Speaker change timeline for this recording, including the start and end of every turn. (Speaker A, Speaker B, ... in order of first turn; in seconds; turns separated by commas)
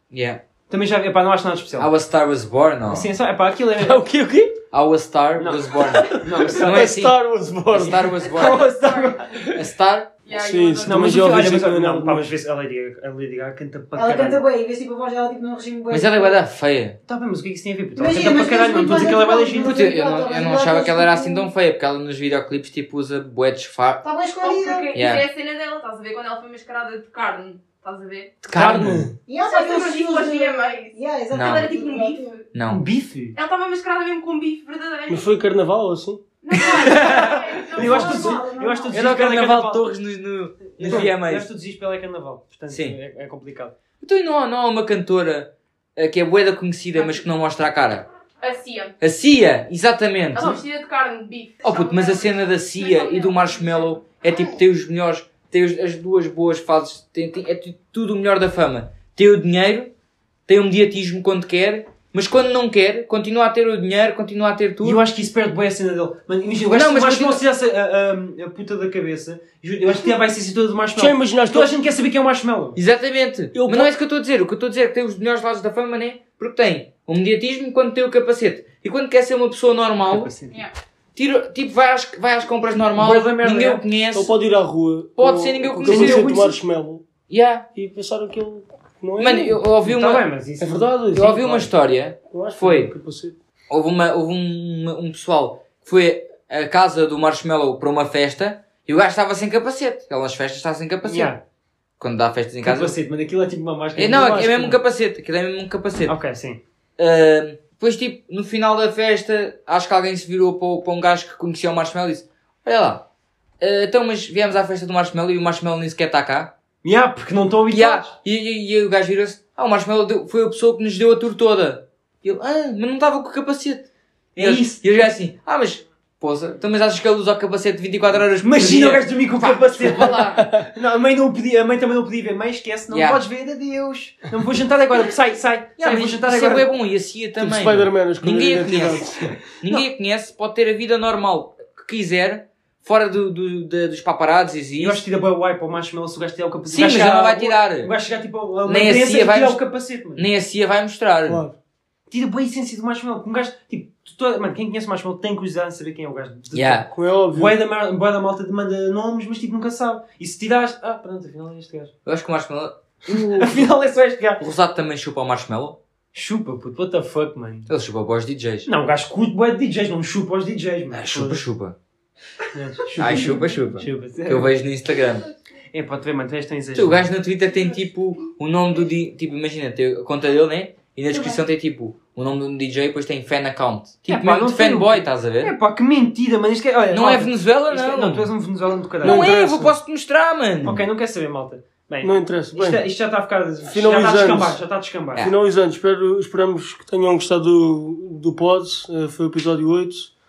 Speaker A: 0.1-0.4, Speaker B: 0.7-1.9, Speaker A: 1.8-3.1, Speaker B: 2.9-4.0, Speaker C: 3.8-4.6, Speaker A: 4.7-7.2, Speaker B: 5.4-6.9, Speaker C: 5.9-8.2, Speaker A: 7.7-8.7, Speaker B: 7.8-9.4, Speaker D: 8.4-9.2, Speaker A: 9.5-10.1, Speaker D: 10.2-11.3, Speaker C: 10.3-12.3, Speaker B: 10.8-14.4, Speaker E: 13.9-16.4, Speaker A: 15.9-17.0, Speaker B: 17.1-19.8, Speaker E: 17.9-21.5, Speaker A: 19.5-24.0, Speaker E: 24.0-24.9, Speaker D: 24.3-28.3, Speaker A: 24.9-25.2, Speaker A: 28.4-29.0, Speaker B: 28.5-29.1, Speaker C: 28.8-29.1, Speaker E: 29.3-32.3, Speaker D: 29.3-32.4, Speaker A: 31.3-31.7, Speaker A: 32.5-32.8, Speaker B: 32.7-33.4, Speaker D: 33.4-35.3, Speaker C: 35.1-36.2, Speaker D: 36.4-38.4, Speaker B: 36.6-39.8, Speaker A: 36.9-37.4, Speaker E: 37.7-38.9, Speaker C: 37.8-38.4, Speaker A: 38.9-41.5, Speaker B: 40.8-43.7, Speaker A: 42.7-43.0, Speaker A: 44.0-48.1, Speaker D: 47.0-47.2, Speaker D: 48.4-48.9, Speaker A: 49.0-50.6, Speaker D: 50.3-54.0, Speaker A: 51.6-59.9, Speaker A: 60.5-65.0, Speaker B: 64.8-72.8, Speaker A: 66.7-67.4, Speaker C: 71.0-71.7, Speaker A: 72.8-80.3, Speaker C: 73.5-73.9, Speaker B: 80.0-80.6, Speaker A: 81.2-84.3, Speaker B: 82.9-83.8, Speaker C: 84.1-87.0, Speaker A: 85.2-86.3, Speaker B: 85.8-86.6, Speaker A: 87.3-87.7, Speaker C: 87.7-89.6, Speaker A: 89.2-90.2, Speaker B: 89.8-90.9, Speaker C: 90.6-91.7, Speaker A: 91.1-92.9, Speaker C: 92.3-93.4, Speaker A: 93.7-101.3, Speaker B: 101.0-101.4, Speaker A: 102.0-103.0, Speaker B: 102.6-104.8, Speaker A: 104.0-106.1, Speaker B: 106.0-106.6, Speaker A: 107.0-113.0, Speaker A: 113.6-116.5, Speaker B: 116.8-118.1, Speaker A: 117.7-130.4, Speaker B: 124.3-124.8, Speaker B: 128.4-136.7, Speaker C: 130.2-130.7, Speaker A: 132.9-133.2, Speaker A: 135.8-145.0, Speaker C: 137.4-139.4, Speaker B: 144.8-150.2, Speaker A: 146.7-147.9, Speaker A: 148.7-149.6, Speaker A: 150.2-151.4, Speaker C: 151.2-151.5, Speaker B: 152.1-161.9, Speaker A: 156.5-156.9, Speaker C: 156.9-157.5, Speaker A: 162.1-163.6, Speaker B: 163.1-164.4, Speaker A: 164.4-165.8, Speaker B: 166.1-167.7, Speaker A: 167.7-168.7, Speaker B: 168.6-171.4, Speaker A: 170.9-171.7, Speaker B: 172.5-174.5, Speaker A: 172.9-175.3, Speaker B: 175.7-177.1, Speaker A: 176.7-185.5, Speaker B: 184.1-189.2, Speaker A: 186.9-188.3, Speaker C: 189.0-189.8, Speaker A: 189.0-190.8, Speaker B: 190.6-195.3, Speaker C: 192.0-192.8, Speaker C: 193.6-194.6, Speaker C: 195.2-200.1